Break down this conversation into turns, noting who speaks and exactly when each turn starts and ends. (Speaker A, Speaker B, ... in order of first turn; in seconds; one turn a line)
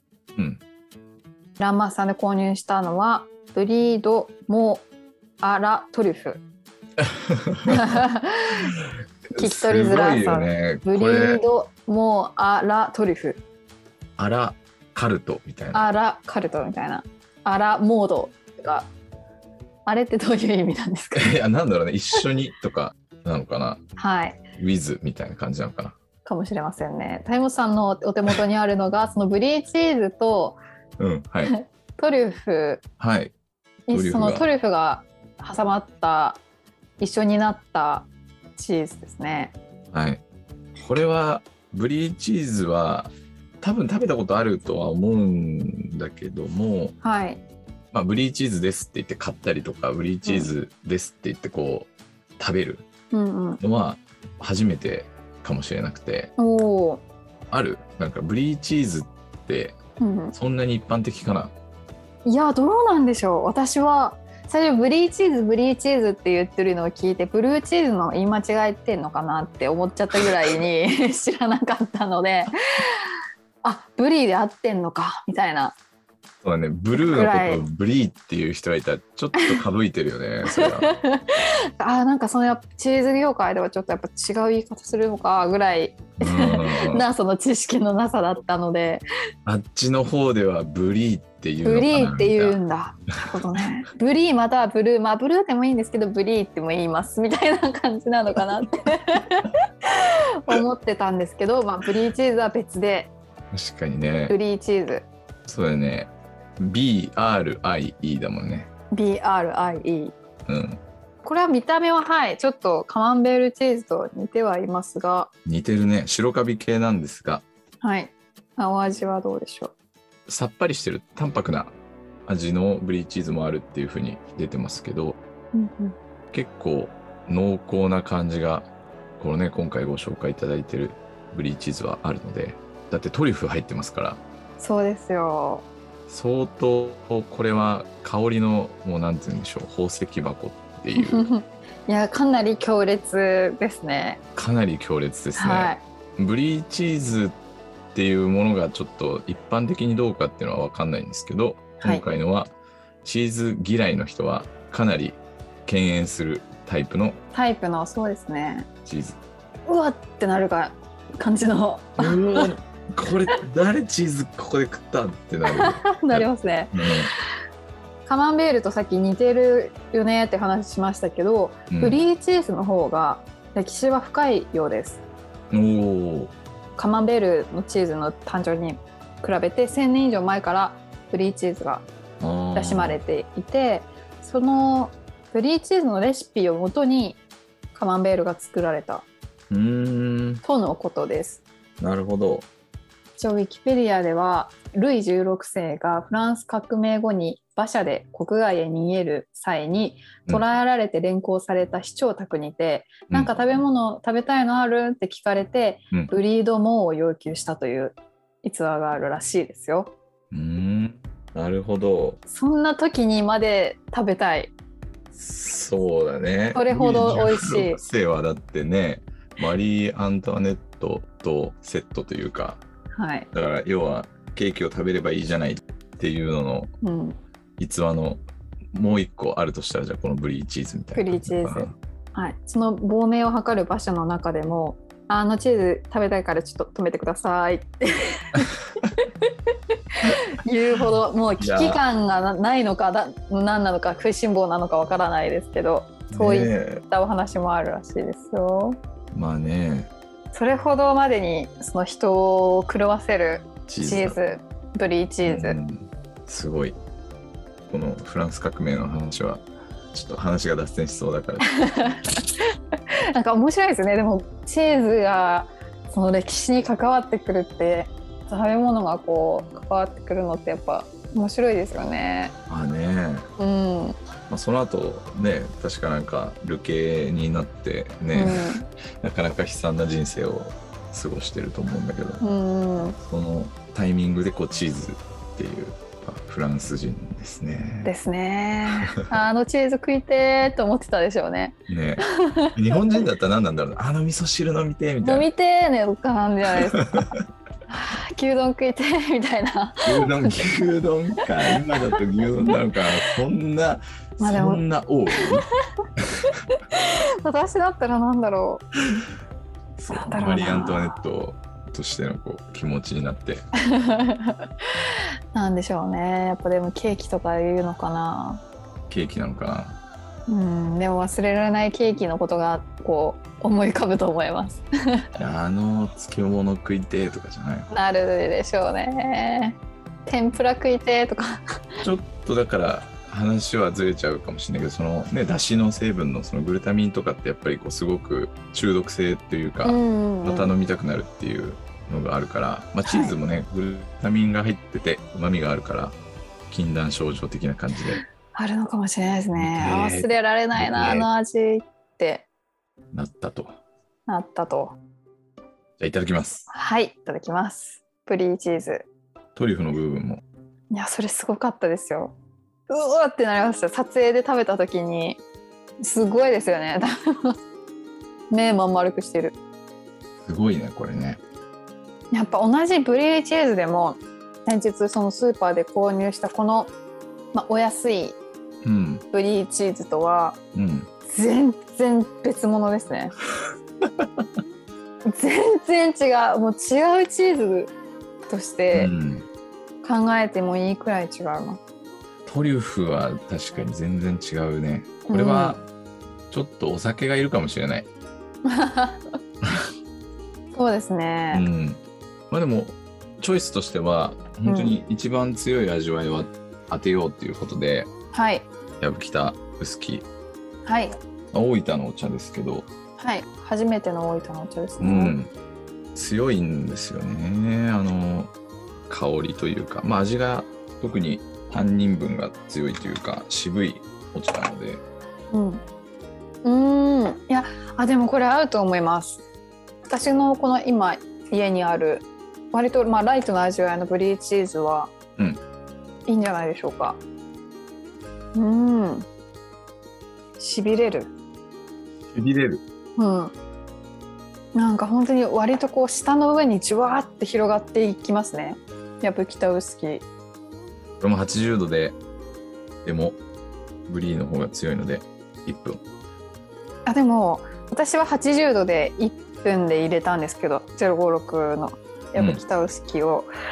Speaker A: 0.3-0.6
Speaker B: 1.6-4.9
Speaker B: 5.4-6.4
Speaker A: 7.0-7.9
Speaker B: 7.7-8.7
Speaker A: 9.3-11.4
Speaker B: 9.3-13.4
Speaker A: 14.2-15.8
Speaker B: 15.7-18.9
Speaker B: 19.9-21.4
Speaker A: 21.1-23.8
Speaker B: 24.0-24.4
Speaker A: 24.6-26.0
Speaker B: 26.2-30.6
Speaker A: 31.0-31.5
Speaker B: 31.4-32.8
Speaker A: 33.0-33.3
Speaker B: 33.9-36.4
Speaker A: 33.9-34.5
Speaker B: 37.0-39.5
Speaker A: 39.9-40.2
Speaker A: 40.8-47.0
Speaker B: 47.0-47.4
Speaker A: 47.9-52.9
Speaker B: 50.2-50.5
Speaker B: 53.1-53.6
Speaker A: 53.6-56.3
Speaker B: 56.4-57.0
Speaker A: 57.5-59.8
Speaker B: 60.0-60.3
Speaker A: 60.3-61.5
Speaker B: 62.2-72.5
Speaker B: 73.6-75.8
Speaker A: 76.4-80.9
Speaker B: 76.9-77.6
Speaker B: 80.5-89.0
Speaker A: 86.2-87.1
Speaker A: 89.4-92.6
Speaker B: 91.6-103.1
Speaker A: 103.5-104.3
Speaker B: 104.3-105.1
Speaker A: 105.5-108.7
Speaker B: 108.9-110.1
Speaker A: 110.5-110.8
Speaker B: 111.2-115.3
Speaker A: 115.4-117.4
Speaker B: 117.8-119.7
Speaker A: 120.3-125.2
Speaker B: 125.5-126.0
Speaker A: 126.3-128.7
Speaker A: 129.2-134.2
Speaker B: 134.6-135.7
Speaker A: 136.1-141.3
Speaker B: 141.0-144.2
Speaker A: 144.3-147.4
Speaker B: 145.4-145.8
Speaker A: 147.9-152.5
Speaker A: 153.0-157.2
Speaker B: 157.3-158.7
Speaker A: 158.8-159.2
Speaker B: 159.7-162.5
Speaker A: 162.0-167.1
Speaker B: 165.6-166.7
Speaker B: 168.1-175.0
Speaker A: 171.7-172.0
Speaker A: 175.5-176.3
Speaker B: 176.8-181.9
Speaker A: 182.2-183.0
Speaker B: 182.5-187.2
Speaker B: 187.7-189.1
Speaker A: 189.5-190.4
Speaker B: 190.4-191.4
Speaker A: 191.8-192.5
Speaker B: 193.2-209.9
Speaker A: 203.1-203.4
Speaker A: 210.3-212.2
Speaker B: 212.3-214.5
Speaker A: 215.1-222.6
Speaker B: 216.5-217.8
Speaker B: 222.9-223.3
Speaker A: 223.3-226.7
Speaker B: 226.8-227.2
Speaker A: 227.6-228.2
Speaker A: 228.7-231.7
Speaker B: 230.9-238.5
Speaker B: 240.0-248.8
Speaker A: 241.4-241.8
Speaker A: 246.1-246.8
Speaker A: 249.1-249.9
Speaker B: 250.3-255.6
Speaker A: 253.7-254.2
Speaker A: 255.2-256.8
Speaker A: 257.7-261.5
Speaker B: 261.6-262.2
Speaker B: 263.1-272.3
Speaker A: 272.5-273.3
Speaker B: 273.4-274.0
Speaker A: 274.3-278.5
Speaker B: 278.1-278.6
Speaker A: 279.0-282.2
Speaker B: 282.2-283.0
Speaker A: 283.0-287.9
Speaker B: 287.8-292.5
Speaker A: 291.7-295.3
Speaker B: 295.0-296.8
Speaker A: 296.7-297.1
Speaker B: 297.7-300.6
Speaker A: 299.8-305.4
Speaker B: 304.2-304.6
Speaker B: 306.7-308.7
Speaker A: 309.8-313.4
Speaker B: 309.9-311.0
Speaker B: 313.7-314.4
Speaker B: 315.3-318.4
Speaker A: 318.9-319.8
Speaker B: 320.3-324.6
Speaker A: 325.1-327.7
Speaker B: 327.7-331.3
Speaker A: 331.8-346.0
Speaker B: 339.6-340.6
Speaker B: 342.8-343.2
Speaker A: 346.5-348.0
Speaker B: 348.3-352.3
Speaker A: 349.4-351.1
Speaker A: 352.9-353.5
Speaker B: 354.1-354.8
Speaker A: 355.8-356.5
Speaker B: 356.5-358.9
Speaker A: 359.4-360.2
Speaker B: 360.7-362.1
Speaker B: 362.7-365.2
Speaker B: 365.8-367.3
Speaker B: 368.3-369.4
Speaker A: 370.2-371.2
Speaker B: 372.1-376.7
Speaker B: 377.3-378.2
Speaker A: 378.6-379.0
Speaker B: 379.1-380.4
Speaker A: 380.5-380.9
Speaker B: 381.1-383.1
Speaker A: 384.0-384.2
Speaker B: 385.1-387.7
Speaker B: 388.3-388.9
Speaker A: 388.7-389.2
Speaker B: 389.8-391.6
Speaker A: 392.2-395.6
Speaker B: 395.1-395.6
Speaker A: 396.3-397.9
Speaker B: 398.4-399.1
Speaker B: 400.5-401.4
Speaker A: 401.3-407.9
Speaker B: 404.4-404.8
Speaker B: 408.1-408.5
Speaker A: 408.8-410.1
Speaker B: 410.6-410.9
Speaker A: 411.3-412.7
Speaker B: 413.0-415.1
Speaker A: 414.8-415.3
Speaker A: 415.9-418.3
Speaker A: 418.9-424.8
Speaker B: 425.3-425.6
Speaker B: 426.4-429.2
Speaker B: 429.9-434.9
Speaker B: 436.1-437.0
Speaker B: 438.3-439.1
Speaker B: 440.4-441.1
Speaker A: 442.1-442.6
Speaker B: 443.0-443.3
Speaker B: 444.5-450.1
Speaker A: 451.0-452.0
Speaker A: 452.8-453.2
Speaker A: 453.9-455.8
Speaker B: 456.9-463.3
Speaker A: 462.1-462.4